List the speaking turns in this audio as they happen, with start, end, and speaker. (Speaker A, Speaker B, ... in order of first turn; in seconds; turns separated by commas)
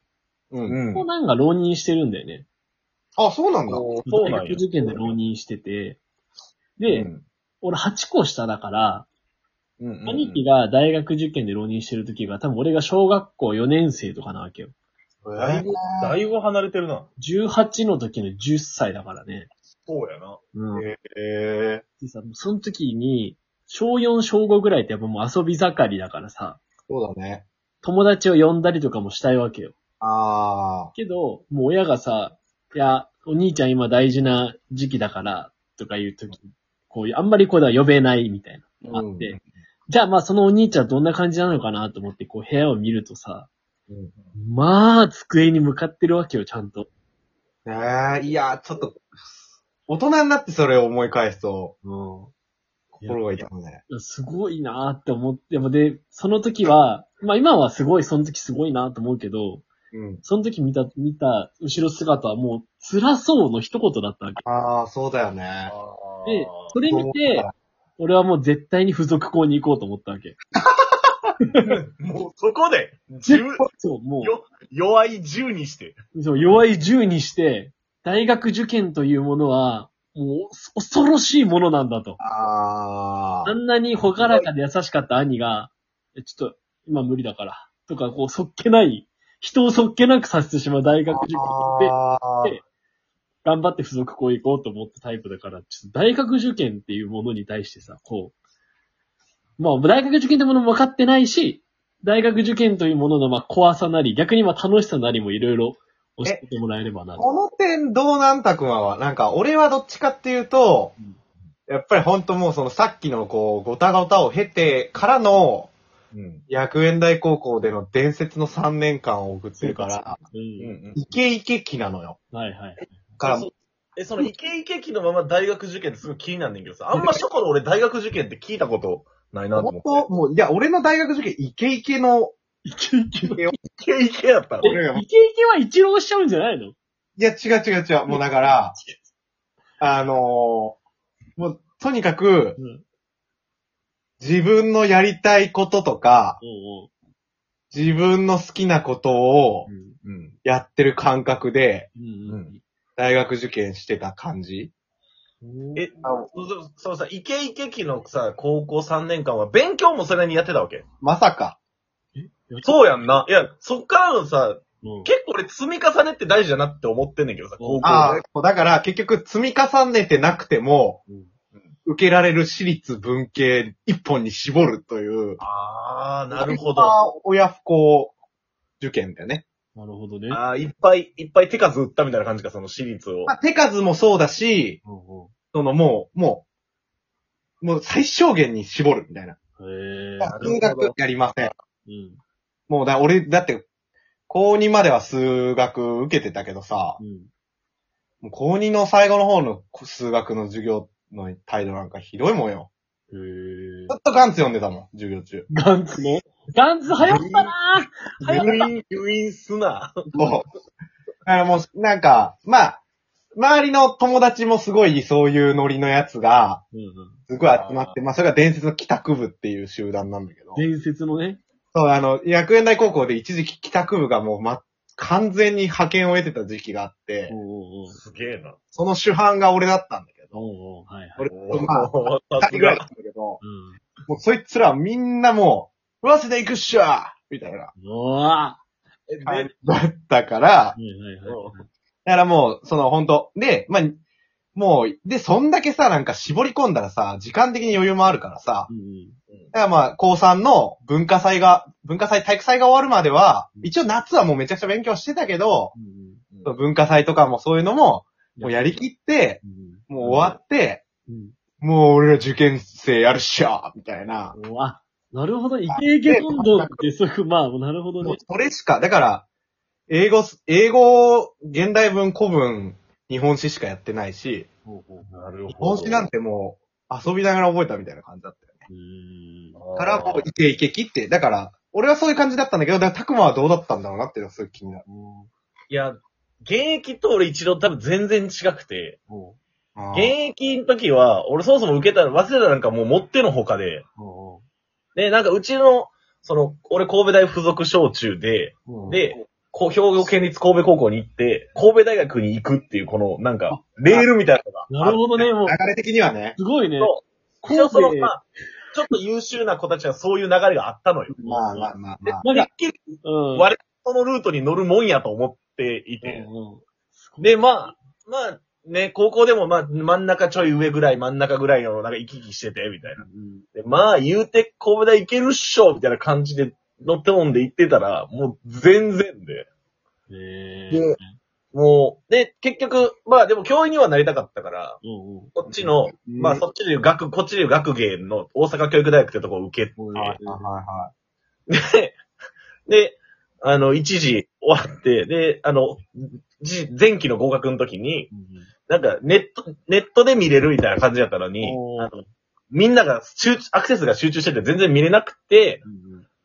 Speaker A: 0.5-0.8, Speaker B: 0.6-1.1, Speaker C: 0.9-2.5, Speaker A: 3.2-3.8, Speaker B: 3.7-5.2, Speaker C: 4.0-6.0, Speaker C: 6.8-7.1, Speaker B: 6.9-7.3, Speaker C: 7.6-9.1, Speaker B: 9.8-10.4, Speaker C: 10.1-14.7, Speaker A: 15.2-16.2, Speaker B: 15.4-17.1, Speaker C: 17.2-19.5, Speaker B: 19.9-20.4, Speaker C: 20.5-20.9, Speaker A: 20.8-21.8, Speaker C: 22.0-26.6, Speaker A: 26.9-27.5, Speaker C: 27.8-29.8, Speaker A: 30.0-30.9, Speaker C: 30.9-39.4, Speaker A: 38.9-39.4, Speaker C: 39.9-43.5, Speaker C: 44.4-46.9, Speaker A: 47.6-49.4, Speaker A: 49.9-51.8, Speaker C: 51.8-52.3, Speaker C: 53.0-59.7, Speaker A: 53.0-53.8, Speaker A: 59.9-60.2, Speaker C: 60.2-64.4, Speaker A: 64.4-65.7, Speaker B: 65.7-66.8, Speaker C: 66.2-70.4, Speaker A: 66.9-67.5, Speaker B: 71.7-73.7, Speaker C: 73.3-74.3, Speaker B: 74.2-76.0, Speaker C: 76.1-82.2, Speaker A: 82.2-83.6, Speaker C: 83.5-92.6, Speaker A: 84.2-84.5, Speaker A: 91.1-92.6, Speaker C: 93.4-98.3, Speaker C: 99.6-107.3, Speaker A: 107.2-111.0, Speaker A: 111.7-115.7, Speaker B: 116.1-116.4, Speaker A: 116.5-120.2, Speaker C: 119.6-120.8, Speaker B: 120.6-121.0, Speaker A: 121.0-122.2, Speaker C: 122.3-122.9, Speaker A: 123.2-123.5, Speaker B: 123.2-130.1, Speaker A: 129.6-132.3, Speaker C: 132.7-133.4, Speaker A: 133.2-133.5, Speaker B: 133.7-134.8, Speaker A: 134.6-135.1, Speaker C: 134.6-136.8, Speaker A: 137.2-138.8, Speaker C: 138.1-139.1, Speaker A: 139.8-140.8, Speaker A: 141.4-142.6, Speaker C: 142.6-142.8, Speaker A: 144.2-146.4, Speaker C: 146.4-146.9, Speaker A: 147.7-149.7, Speaker C: 149.7-150.0, Speaker B: 150.0-150.4, Speaker A: 150.4-151.9, Speaker C: 152.0-152.6, Speaker B: 152.3-152.5, Speaker A: 153.0-154.7, Speaker C: 155.4-155.9, Speaker B: 155.8-160.8, Speaker A: 156.0-156.3, Speaker A: 161.0-161.6, Speaker C: 162.2-163.2, Speaker B: 162.6-168.2, Speaker C: 164.8-165.1, Speaker C: 167.6-168.2, Speaker A: 167.8-171.0, Speaker A: 171.9-175.4, Speaker B: 175.4-177.0, Speaker A: 176.3-178.2, Speaker A: 178.8-179.4, Speaker C: 179.8-180.4, Speaker B: 180.3-183.3, Speaker A: 183.3-184.8, Speaker C: 184.8-185.3, Speaker A: 185.5-186.4, Speaker A: 187.6-189.4, Speaker C: 189.6-190.6, Speaker A: 190.2-191.5, Speaker B: 190.3-191.6, Speaker C: 191.9-192.2, Speaker A: 192.7-193.7, Speaker A: 194.3-197.0, Speaker C: 197.0-197.3, Speaker A: 198.2-202.7, Speaker C: 203.1-203.9, Speaker A: 203.9-205.5, Speaker C: 205.5-208.6, Speaker A: 207.0-207.6, Speaker A: 208.2-208.6, Speaker B: 208.2-210.3, Speaker A: 210.2-210.5, Speaker A: 211.3-212.8, Speaker A: 213.3-216.6, Speaker C: 216.7-217.2, Speaker A: 217.3-220.6, Speaker B: 217.4-218.0, Speaker C: 220.6-221.4, Speaker A: 221.7-227.3, Speaker C: 227.3-228.0, Speaker B: 227.9-228.6, Speaker A: 228.7-230.4, Speaker C: 230.3-231.3, Speaker A: 231.2-233.4, Speaker B: 231.3-232.8, Speaker C: 233.4-233.8, Speaker A: 234.1-237.7, Speaker C: 237.8-238.6, Speaker B: 239.1-239.5, Speaker A: 239.2-240.8, Speaker C: 240.8-241.7, Speaker B: 241.2-241.6, Speaker A: 242.1-244.0, Speaker A: 244.6-248.7, Speaker C: 248.7-249.2, Speaker A: 249.5-255.7, Speaker C: 255.7-256.2, Speaker A: 256.4-260.8, Speaker C: 258.4-258.7, Speaker C: 259.4-260.4, Speaker C: 261.1-261.3, Speaker A: 261.6-264.4, Speaker C: 264.4-268.2, Speaker A: 265.7-266.8, Speaker A: 268.0-269.3, Speaker A: 269.9-274.5, Speaker C: 274.7-275.1, Speaker B: 275.1-276.1, Speaker A: 275.5-278.6, Speaker C: 278.7-279.6, Speaker B: 279.6-280.3, Speaker A: 279.8-284.8, Speaker C: 284.9-285.3, Speaker B: 285.7-289.0, Speaker C: 289.1-289.4, Speaker A: 289.8-290.1, Speaker B: 289.9-293.9, Speaker C: 294.0-294.4, Speaker B: 295.0-305.2, Speaker A: 298.7-299.0, Speaker C: 303.5-304.1, Speaker C: 304.7-305.6, Speaker A: 305.1-306.4, Speaker C: 306.4-306.9, Speaker B: 306.8-311.2, Speaker C: 307.4-308.2, Speaker A: 311.1-312.3, Speaker C: 311.2-312.5, Speaker B: 312.3-316.3, Speaker C: 313.0-313.5, Speaker C: 316.0-317.8, Speaker B: 317.2-329.5, Speaker C: 322.9-323.5, Speaker C: 330.1-331.2, Speaker B: 330.7-331.0, Speaker B: 331.5-334.8, Speaker C: 334.8-335.4, Speaker B: 335.4-340.0, Speaker A: 335.6-336.4, Speaker C: 339.8-340.5, Speaker A: 339.9-340.9, Speaker B: 341.5-342.0, Speaker B: 342.7-348.1, Speaker C: 348.1-348.5, Speaker B: 348.7-352.0, Speaker C: 351.4-352.1, Speaker B: 352.5-355.6, Speaker C: 355.6-356.1